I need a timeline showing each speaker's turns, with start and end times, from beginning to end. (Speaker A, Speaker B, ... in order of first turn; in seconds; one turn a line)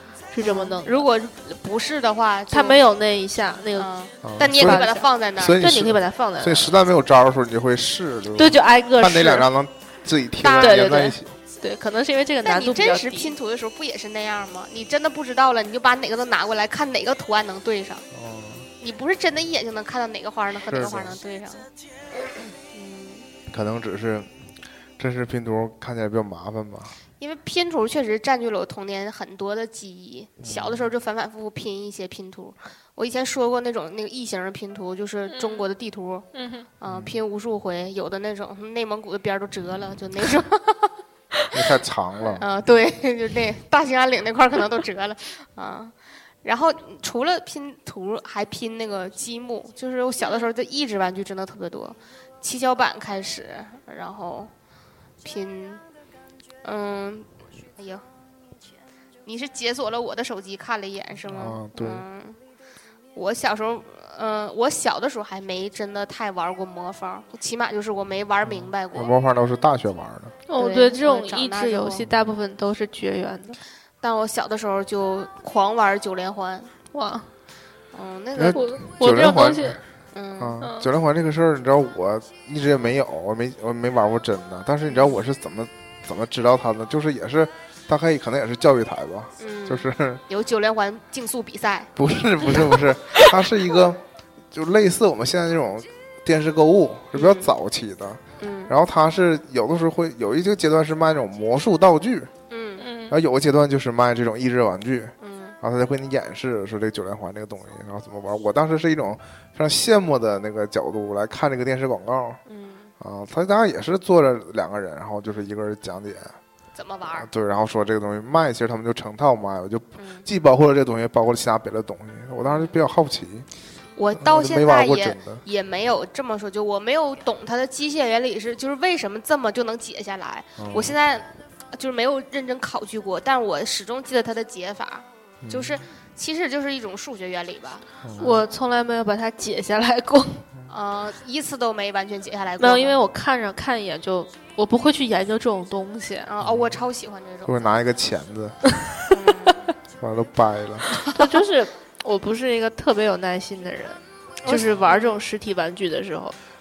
Speaker A: 0.3-1.1
Speaker B: 0.4-2.8
Speaker A: 2.5-3.9
Speaker B: 3.7-5.6
Speaker C: 4.2-11.4
Speaker A: 4.5-6.7
Speaker A: 8.4-9.5
Speaker B: 10.4-11.1
Speaker A: 10.6-13.4
Speaker B: 12.4-18.1
Speaker C: 18.1-18.7
Speaker B: 18.8-21.7
Speaker C: 20.7-21.2
Speaker B: 22.7-23.3
Speaker C: 23.5-24.3
Speaker C: 25.0-26.9
Speaker B: 27.2-36.3
Speaker C: 30.4-30.9
Speaker A: 35.3-35.7
Speaker A: 36.3-36.7
Speaker B: 36.8-40.9
Speaker C: 36.9-37.2
Speaker C: 41.5-42.5
Speaker B: 42.4-54.5
Speaker B: 55.2-55.8
Speaker B: 56.6-58.0
Speaker B: 59.2-62.4
Speaker C: 61.3-62.0
Speaker B: 63.1-69.1
Speaker C: 68.5-70.3
Speaker A: 70.5-73.6
Speaker B: 70.6-72.0
Speaker B: 74.0-76.7
Speaker A: 76.9-77.3
Speaker B: 77.9-78.6
Speaker C: 78.3-79.8
Speaker A: 78.5-79.8
Speaker B: 80.1-80.6
Speaker C: 80.4-90.2
Speaker A: 80.6-80.9
Speaker B: 84.9-85.2
Speaker B: 89.4-91.9
Speaker C: 92.0-94.0
Speaker C: 94.5-102.3
Speaker B: 97.1-97.5
Speaker B: 98.4-98.7
Speaker B: 102.5-102.9
Speaker A: 102.8-103.2
Speaker C: 103.1-112.4
Speaker B: 105.2-105.6
Speaker B: 112.5-112.9
Speaker C: 113.0-116.3
Speaker B: 116.8-117.3
Speaker C: 117.1-123.5
Speaker B: 120.0-120.3
Speaker B: 122.5-122.8
Speaker B: 124.0-137.8
Speaker C: 124.2-125.4
Speaker C: 130.6-131.0
Speaker C: 135.4-135.8
Speaker C: 138.0-138.4
Speaker A: 138.2-140.4
Speaker B: 140.7-143.0
Speaker A: 142.6-146.3
Speaker B: 146.3-147.7
Speaker C: 146.4-146.7
Speaker C: 147.5-148.6
Speaker B: 149.1-149.7
Speaker C: 150.0-150.9
Speaker A: 151.1-156.4
Speaker B: 154.5-155.1